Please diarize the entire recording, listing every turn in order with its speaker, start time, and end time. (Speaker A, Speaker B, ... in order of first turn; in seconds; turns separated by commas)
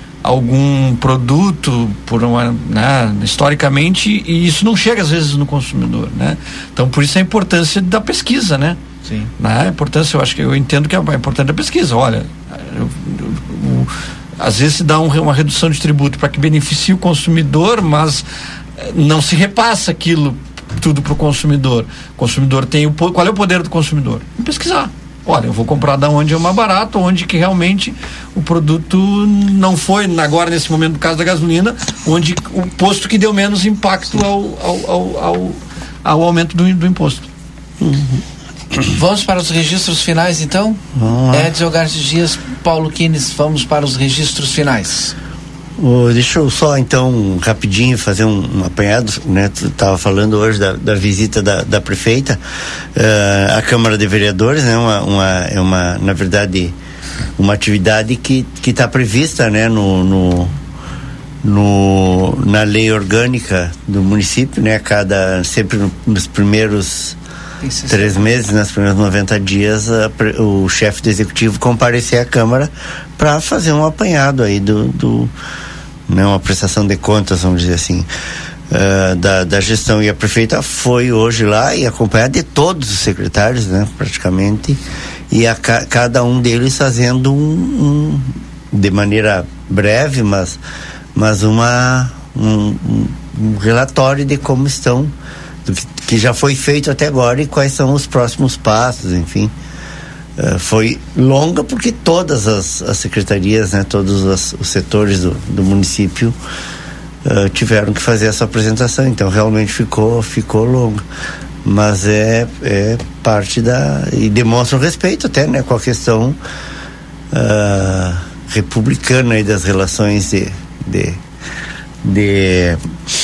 Speaker A: 0.2-8.8, Speaker B: 9.1-9.3, Speaker A: 9.4-18.2, Speaker A: 18.8-37.3, Speaker C: 37.8-38.2, Speaker B: 38.9-45.1, Speaker C: 41.0-41.5, Speaker C: 45.8-52.4, Speaker C: 52.9-56.7, Speaker C: 57.4-60.5, Speaker C: 61.4-67.2, Speaker B: 67.6-68.3, Speaker C: 67.9-75.3, Speaker C: 76.1-78.1, Speaker C: 78.7-90.6, Speaker C: 91.1-95.1, Speaker C: 95.6-99.5, Speaker C: 100.4-106.3, Speaker C: 107.2-111.0, Speaker C: 111.6-116.4, Speaker C: 117.3-121.2, Speaker C: 122.0-122.8